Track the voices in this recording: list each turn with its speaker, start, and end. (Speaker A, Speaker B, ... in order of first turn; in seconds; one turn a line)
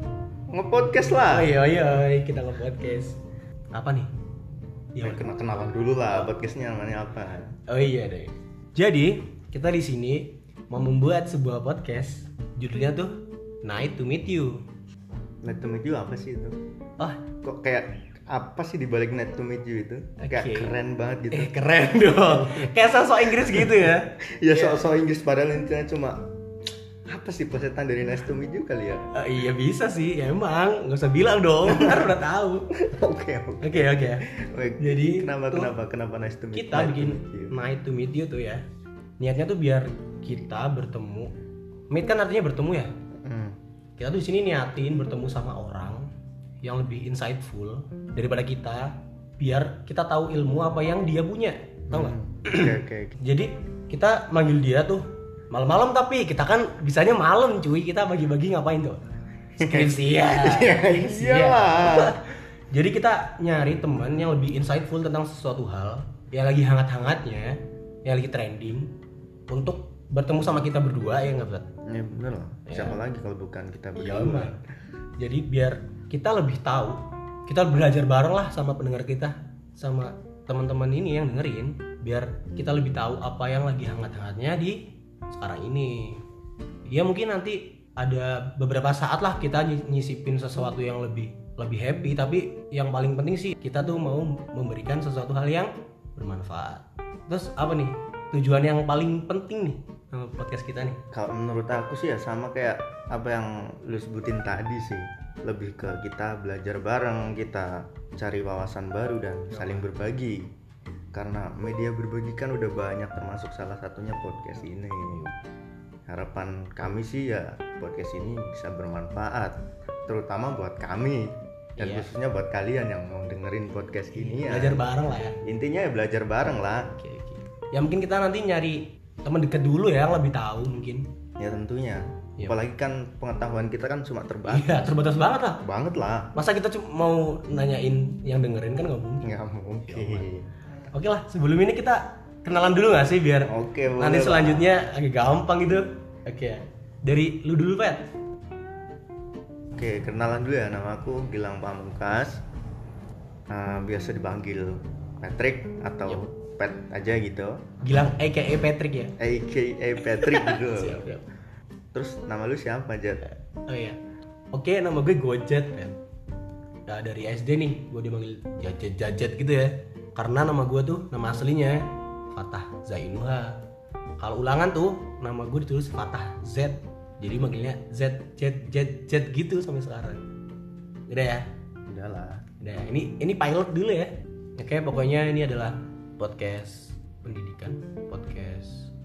Speaker A: 0.5-1.5
Speaker B: 1.2-3.2
Speaker B: 3.7-4.1
Speaker B: 4.9-5.3
Speaker A: 5.0-7.5
Speaker B: 7.7-13.1
Speaker B: 13.6-14.6
Speaker A: 15.4-16.6
Speaker A: 17.4-22.7
Speaker B: 20.2-20.7
Speaker B: 21.3-24.9
Speaker A: 23.4-23.7
Speaker A: 24.2-26.3
Speaker A: 27.1-29.1
Speaker B: 29.1-32.7
Speaker A: 31.7-32.1
Speaker A: 32.7-37.6
Speaker B: 33.6-34.3
Speaker B: 34.8-35.7
Speaker B: 36.5-38.6
Speaker B: 39.2-41.3
Speaker B: 41.9-42.9
Speaker A: 43.2-43.6
Speaker B: 44.0-46.1
Speaker B: 46.6-59.0
Speaker A: 51.9-53.2
Speaker B: 59.5-68.9
Speaker A: 59.6-62.2
Speaker B: 69.5-71.7
Speaker A: 71.8-74.6
Speaker B: 72.7-73.0
Speaker B: 74.0-74.6
Speaker B: 75.2-86.2
Speaker B: 86.8-101.0
Speaker A: 101.1-110.5
Speaker B: 109.5-109.9
Speaker A: 111.1-115.3
Speaker A: 116.1-119.5
Speaker A: 120.1-126.9
Speaker B: 121.8-122.1
Speaker B: 124.1-125.4
Speaker B: 126.9-131.1
Speaker A: 131.4-134.8
Speaker B: 134.4-135.6
Speaker A: 135.6-136.3
Speaker B: 136.3-139.3
Speaker A: 139.2-140.5
Speaker B: 139.9-140.3
Speaker B: 140.9-148.1
Speaker A: 143.4-144.7
Speaker A: 149.7-152.4
Speaker A: 153.5-157.6
Speaker B: 157.8-159.1
Speaker A: 159.2-161.0
Speaker B: 160.0-161.3
Speaker A: 161.9-163.2
Speaker B: 163.2-164.0
Speaker B: 164.5-166.0
Speaker B: 166.9-173.6
Speaker B: 174.2-180.2
Speaker B: 181.1-181.4
Speaker A: 181.9-182.4
Speaker B: 182.6-188.9